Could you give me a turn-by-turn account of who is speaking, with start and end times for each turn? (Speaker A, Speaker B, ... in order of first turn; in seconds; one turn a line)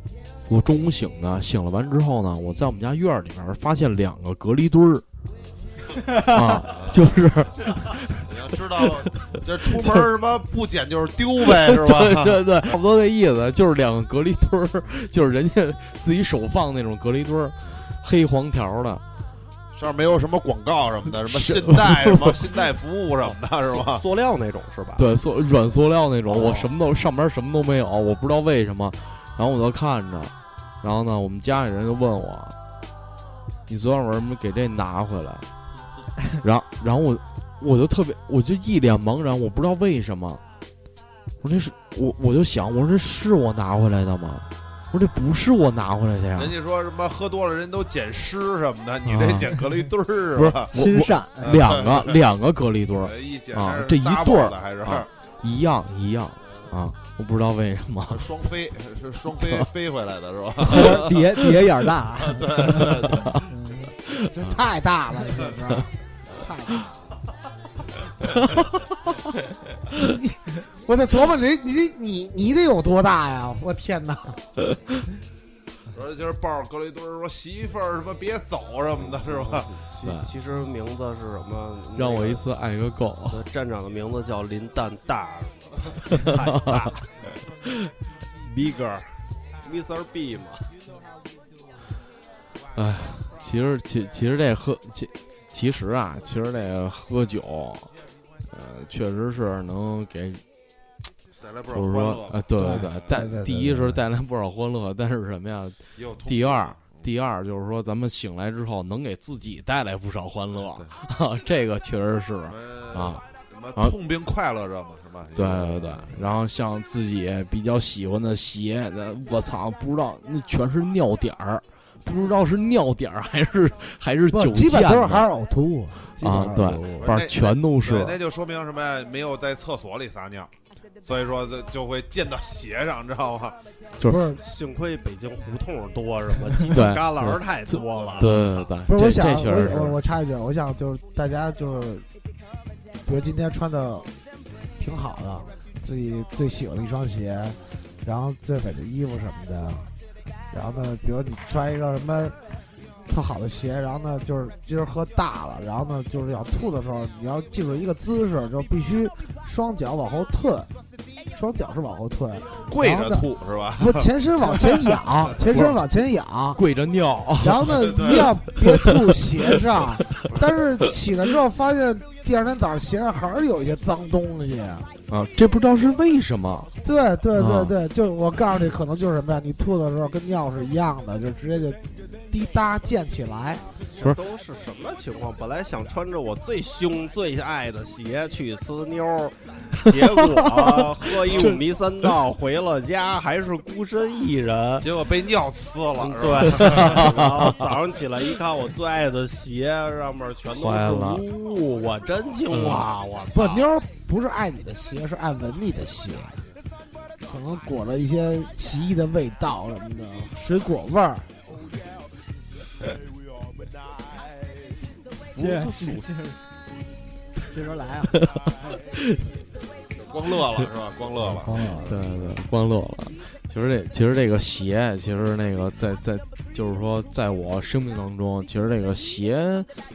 Speaker A: 0.5-5.0
Speaker A: 6.1-9.0
Speaker B: 6.7-7.1
Speaker B: 8.2-12.4
Speaker A: 11.5-19.0
Speaker B: 19.7-24.0
Speaker A: 21.3-22.4
Speaker C: 23.2-25.0
Speaker A: 25.0-32.5
Speaker C: 26.3-26.7
Speaker A: 33.7-35.5
Speaker A: 36.4-40.4
Speaker A: 41.4-46.5
Speaker B: 46.4-50.8
Speaker A: 49.0-49.6
Speaker A: 50.3-58.3
Speaker D: 50.7-51.7
Speaker B: 51.4-52.2
Speaker B: 53.0-55.1
Speaker B: 58.1-63.4
Speaker A: 59.4-59.6
Speaker D: 60.7-63.9
Speaker A: 62.8-63.4
Speaker A: 64.1-64.6
Speaker E: 64.3-67.1
Speaker E: 69.9-74.4
Speaker B: 75.9-79.7
Speaker C: 79.0-82.5
Speaker A: 80.0-80.3
Speaker A: 82.0-83.4
Speaker C: 83.3-87.1
Speaker A: 86.3-86.9
Speaker C: 88.4-90.7
Speaker A: 92.8-97.9
Speaker A: 98.5-100.4
Speaker B: 101.4-103.1
Speaker A: 101.7-113.2
Speaker E: 102.6-104.0
Speaker B: 106.0-107.1
Speaker B: 110.6-110.9
Speaker B: 112.5-116.3
Speaker A: 115.4-125.3
Speaker E: 124.3-127.2
Speaker A: 126.2-128.2
Speaker B: 127.0-130.5
Speaker B: 131.0-133.6
Speaker A: 134.0-134.3
Speaker E: 134.0-134.4
Speaker C: 134.3-138.6
Speaker A: 136.7-140.0
Speaker E: 138.9-142.1
Speaker E: 143.1-144.1
Speaker E: 144.8-149.9
Speaker E: 150.5-152.4
Speaker E: 153.1-160.7
Speaker E: 161.3-166.6
Speaker B: 162.7-164.1
Speaker A: 165.5-165.8
Speaker A: 166.6-167.9
Speaker E: 167.4-174.9
Speaker B: 167.8-168.3
Speaker A: 168.5-169.0
Speaker A: 175.1-176.7
Speaker E: 176.8-183.7
Speaker A: 177.3-177.8
Speaker C: 184.0-194.9
Speaker B: 194.8-197.3
Speaker C: 196.0-203.7
Speaker A: 196.6-197.1
Speaker A: 200.5-201.2
Speaker A: 202.5-202.9
Speaker E: 203.3-206.4
Speaker E: 207.2-211.3
Speaker D: 215.4-216.4
Speaker D: 217.5-218.1
Speaker A: 218.1-219.2
Speaker B: 220.0-222.3
Speaker E: 221.3-221.9
Speaker A: 221.8-229.7